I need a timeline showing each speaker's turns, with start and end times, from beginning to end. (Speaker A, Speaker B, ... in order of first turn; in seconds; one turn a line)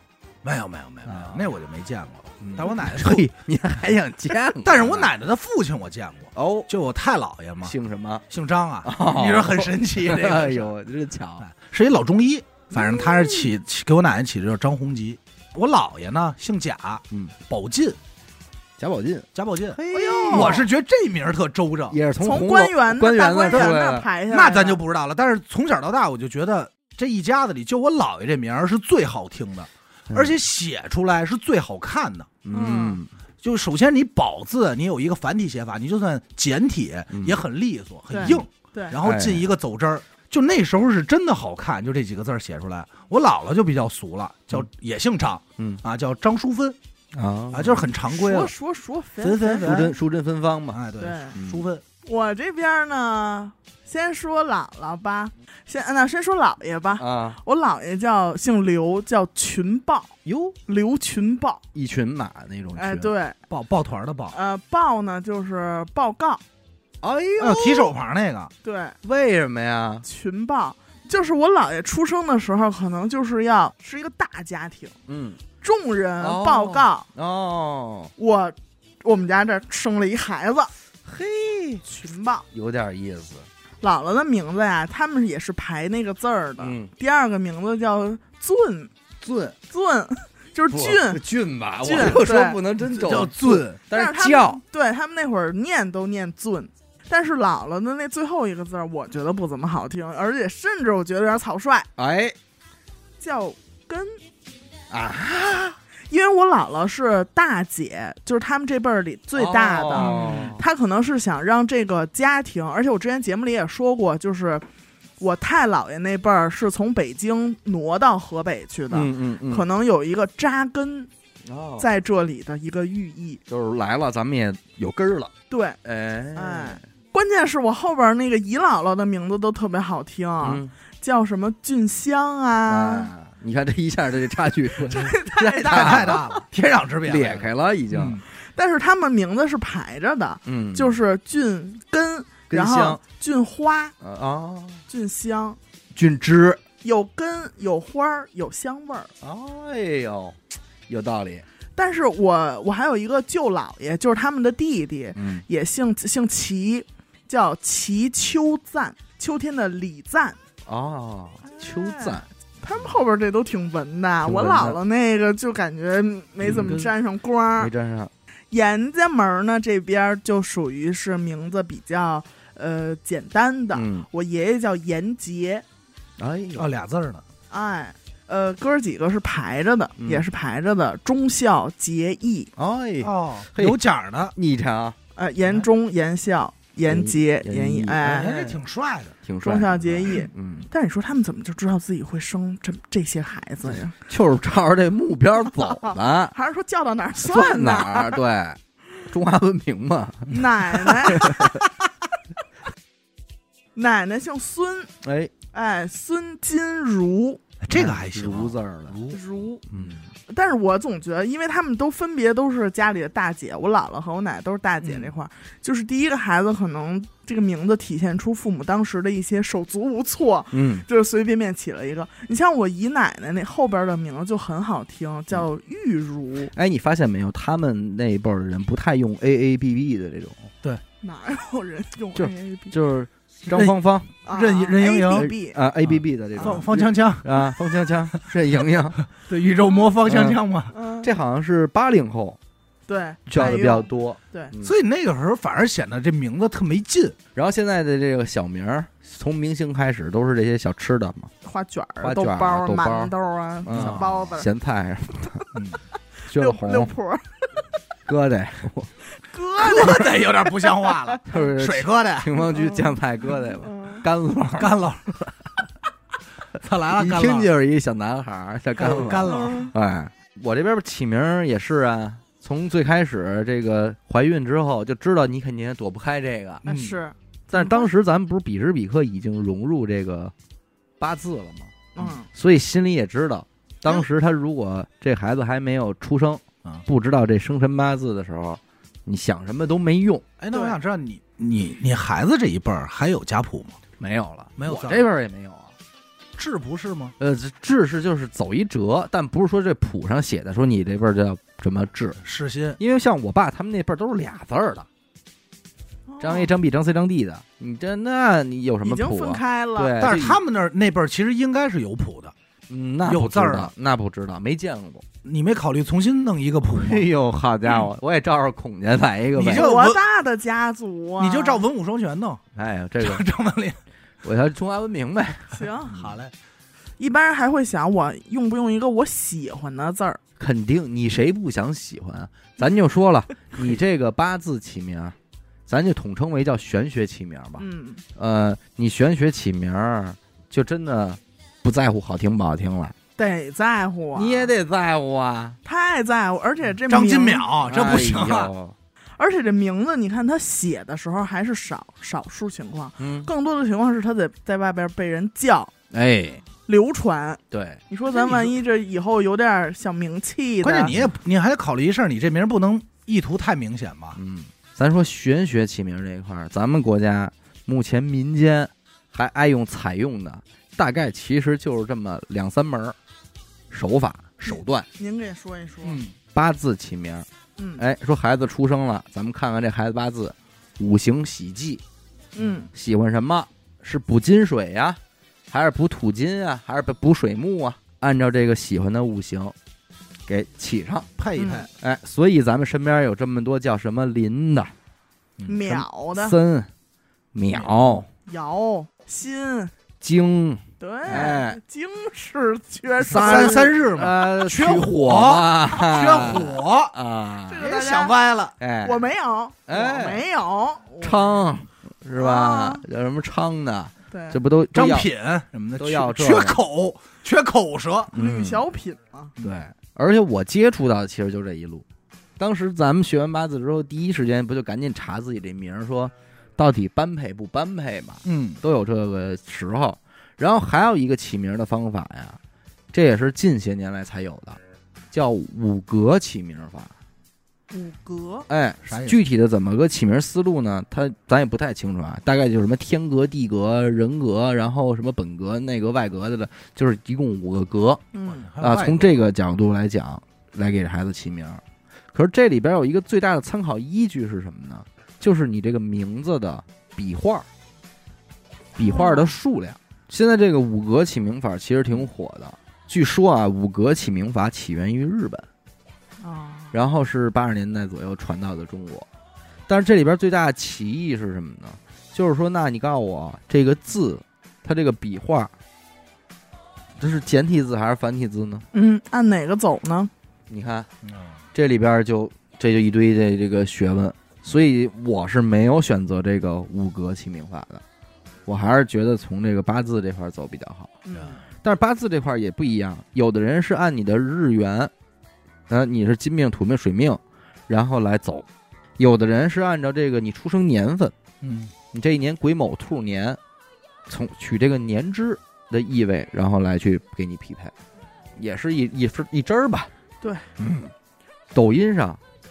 Speaker A: 0.4-3.3
Speaker B: 1.0-1.5
Speaker B: 2.4-5.1
Speaker A: 4.6-7.7
Speaker B: 6.3-6.7
Speaker B: 7.6-8.2
Speaker A: 8.3-10.7
Speaker B: 8.8-11.4
Speaker A: 11.4-18.0
Speaker C: 12.7-13.5
Speaker B: 18.8-20.7
Speaker A: 19.3-22.0
Speaker C: 19.9-20.6
Speaker B: 21.9-24.1
Speaker C: 22.2-24.8
Speaker A: 23.5-23.8
Speaker A: 24.3-32.4
Speaker B: 30.1-30.4
Speaker B: 32.4-33.1
Speaker C: 32.5-33.0
Speaker A: 33.4-46.8
Speaker B: 37.1-37.4
Speaker C: 38.1-38.9
Speaker B: 39.0-39.5
Speaker B: 47.1-47.9
Speaker A: 47.5-48.5
Speaker C: 48.0-49.7
Speaker A: 49.2-50.0
Speaker B: 49.6-50.8
Speaker A: 50.7-51.8
Speaker C: 51.0-51.4
Speaker B: 51.3-51.7
Speaker C: 52.0-60.1
Speaker B: 57.0-57.4
Speaker B: 60.2-60.6
Speaker C: 60.6-61.6
Speaker B: 61.7-63.1
Speaker C: 62.7-63.4
Speaker A: 63.5-64.3
Speaker C: 64.3-66.4
Speaker B: 67.0-67.9
Speaker A: 67.4-68.5
Speaker C: 68.6-69.0
Speaker B: 69.0-70.0
Speaker C: 70.0-74.9
Speaker B: 75.1-75.4
Speaker C: 75.6-77.0
Speaker B: 76.2-78.1
Speaker C: 78.2-80.7
Speaker B: 81.0-81.8
Speaker C: 81.8-82.5
Speaker B: 82.5-83.5
Speaker C: 83.8-88.9
Speaker B: 86.6-86.9
Speaker B: 89.2-89.5
Speaker C: 89.7-91.2
Speaker B: 90.7-94.6
Speaker C: 91.8-92.6
Speaker A: 92.8-93.8
Speaker C: 93.9-101.9
Speaker B: 102.0-102.3
Speaker C: 103.2-104.2
Speaker B: 104.9-105.8
Speaker C: 106.1-114.7
Speaker B: 109.3-110.6
Speaker A: 109.9-110.6
Speaker C: 115.2-121.1
Speaker B: 118.9-119.7
Speaker B: 121.4-121.9
Speaker C: 121.8-123.4
Speaker B: 123.5-125.3
Speaker C: 125.5-125.8
Speaker B: 125.8-126.8
Speaker C: 126.3-133.1
Speaker B: 130.4-130.7
Speaker B: 132.7-136.2
Speaker C: 134.8-136.4
Speaker A: 135.7-138.2
Speaker B: 137.0-138.2
Speaker C: 138.3-143.9
Speaker B: 140.4-141.0
Speaker B: 142.5-143.0
Speaker B: 144.0-144.8
Speaker C: 144.9-145.6
Speaker B: 145.9-146.6
Speaker C: 146.8-149.1
Speaker B: 149.2-151.4
Speaker C: 151.7-160.4
Speaker B: 155.1-155.4
Speaker B: 160.7-162.2
Speaker C: 161.4-167.7
Speaker B: 164.2-164.8
Speaker B: 166.4-166.9
Speaker A: 166.5-166.8
Speaker B: 167.6-168.1
Speaker C: 168.5-175.6
Speaker B: 173.7-174.1
Speaker B: 176.2-176.7
Speaker A: 176.5-177.2
Speaker C: 177.5-182.5
Speaker B: 180.0-180.2
Speaker B: 182.6-183.8
Speaker A: 183.0-184.3
Speaker B: 184.3-185.0
Speaker C: 185.2-188.3
Speaker B: 186.8-188.6
Speaker A: 188.0-189.2
Speaker B: 189.2-190.7
Speaker C: 189.4-193.9
Speaker B: 194.1-196.3
Speaker C: 195.7-198.2
Speaker B: 197.2-200.3
Speaker C: 200.3-201.6
Speaker A: 200.4-201.2
Speaker B: 201.1-201.6
Speaker C: 203.7-204.9
Speaker B: 205.0-205.3
Speaker C: 205.5-207.4
Speaker A: 207.6-209.2
Speaker B: 207.7-208.9
Speaker C: 209.1-209.6
Speaker B: 209.7-210.0
Speaker C: 210.3-226.5
Speaker B: 220.5-220.8
Speaker B: 226.5-230.4
Speaker C: 231.0-232.7
Speaker B: 232.1-234.1
Speaker A: 233.5-235.3
Speaker C: 234.2-235.6
Speaker B: 235.1-239.0
Speaker A: 235.8-237.4
Speaker C: 236.4-236.6
Speaker A: 239.1-240.7
Speaker B: 240.0-240.4
Speaker C: 240.7-241.1
Speaker B: 241.0-242.4
Speaker C: 242.9-244.5
Speaker B: 243.3-244.8
Speaker A: 244.6-247.2
Speaker B: 247.3-251.3
Speaker C: 251.4-254.5
Speaker B: 252.0-255.5
Speaker A: 253.7-254.0
Speaker A: 255.5-255.8
Speaker C: 256.3-257.6
Speaker B: 256.3-256.9
Speaker B: 258.1-258.9
Speaker C: 259.2-261.1
Speaker A: 259.6-262.4
Speaker B: 261.3-265.3
Speaker C: 262.5-264.0
Speaker A: 264.5-265.1
Speaker A: 266.5-267.5
Speaker B: 266.9-276.6
Speaker A: 268.8-269.7
Speaker C: 269.3-269.7
Speaker A: 276.6-277.0
Speaker C: 276.6-277.9
Speaker B: 277.5-280.3
Speaker B: 281.0-281.7
Speaker C: 281.9-282.3
Speaker B: 282.3-290.3
Speaker A: 290.4-293.8
Speaker B: 294.0-295.7
Speaker A: 294.6-295.1
Speaker A: 296.4-297.1
Speaker B: 297.2-302.2
Speaker A: 302.2-302.8
Speaker B: 302.8-304.9
Speaker C: 306.1-306.5
Speaker B: 306.2-310.4
Speaker C: 308.8-310.0
Speaker A: 310.0-312.3
Speaker B: 312.7-315.1
Speaker A: 313.0-313.7
Speaker A: 315.2-317.1
Speaker B: 316.7-319.7
Speaker A: 319.3-320.0
Speaker C: 319.5-321.6
Speaker A: 321.2-322.4
Speaker B: 322.5-323.2
Speaker A: 323.0-323.8
Speaker B: 324.2-325.7
Speaker C: 325.5-326.0
Speaker A: 325.9-326.3
Speaker C: 327.0-330.2
Speaker B: 330.4-335.1
Speaker B: 335.7-342.9
Speaker C: 337.6-338.0
Speaker C: 343.2-344.5
Speaker B: 344.1-345.6
Speaker C: 345.6-347.5
Speaker A: 346.9-348.5
Speaker B: 347.6-348.8
Speaker C: 349.2-355.7
Speaker B: 353.0-353.3
Speaker B: 355.9-356.4
Speaker C: 356.7-360.9
Speaker B: 357.5-357.8
Speaker A: 358.1-358.5
Speaker A: 360.6-364.2
Speaker B: 364.1-372.9
Speaker B: 373.7-374.9
Speaker C: 374.4-376.0
Speaker A: 375.8-376.1
Speaker B: 376.3-377.3
Speaker C: 377.6-377.8
Speaker B: 377.8-381.8
Speaker C: 382.3-382.7
Speaker B: 382.7-385.0
Speaker B: 385.5-389.5
Speaker B: 390.3-391.1
Speaker A: 391.2-391.7
Speaker C: 391.4-391.7
Speaker B: 391.8-394.7
Speaker C: 395.5-396.4
Speaker B: 395.6-396.7
Speaker B: 397.3-398.1
Speaker C: 398.2-399.7
Speaker B: 400.0-401.6
Speaker C: 400.8-403.7
Speaker B: 403.0-407.6
Speaker A: 403.1-406.9
Speaker C: 407.5-408.1
Speaker A: 407.6-408.6
Speaker B: 408.6-409.1
Speaker C: 408.8-411.3
Speaker B: 409.6-410.2
Speaker B: 411.0-415.1
Speaker C: 412.1-412.8
Speaker C: 414.1-414.4
Speaker A: 414.7-418.1
Speaker B: 415.8-416.6
Speaker B: 418.1-418.6
Speaker C: 418.1-419.3
Speaker B: 419.4-421.8
Speaker B: 422.4-432.4
Speaker A: 428.2-428.6
Speaker B: 432.9-434.6
Speaker B: 435.1-436.9
Speaker C: 437.7-438.5
Speaker B: 438.5-448.0
Speaker A: 438.8-439.2
Speaker C: 448.1-448.5
Speaker A: 448.2-449.2
Speaker B: 448.6-457.4
Speaker B: 458.8-465.5
Speaker C: 458.8-459.3
Speaker C: 466.2-466.7
Speaker B: 466.7-469.1
Speaker B: 469.7-475.5
Speaker B: 477.0-478.6
Speaker C: 478.7-480.1
Speaker B: 480.5-480.9
Speaker A: 481.0-481.4
Speaker B: 481.5-487.8
Speaker B: 488.4-491.0
Speaker C: 491.0-491.4
Speaker A: 491.1-491.4
Speaker B: 491.6-494.9
Speaker B: 495.7-498.5
Speaker B: 499.0-501.1
Speaker A: 501.4-501.7
Speaker B: 501.9-503.4
Speaker B: 504.1-507.7
Speaker B: 508.4-509.9
Speaker C: 510.2-510.5
Speaker B: 510.6-510.9
Speaker B: 511.5-512.2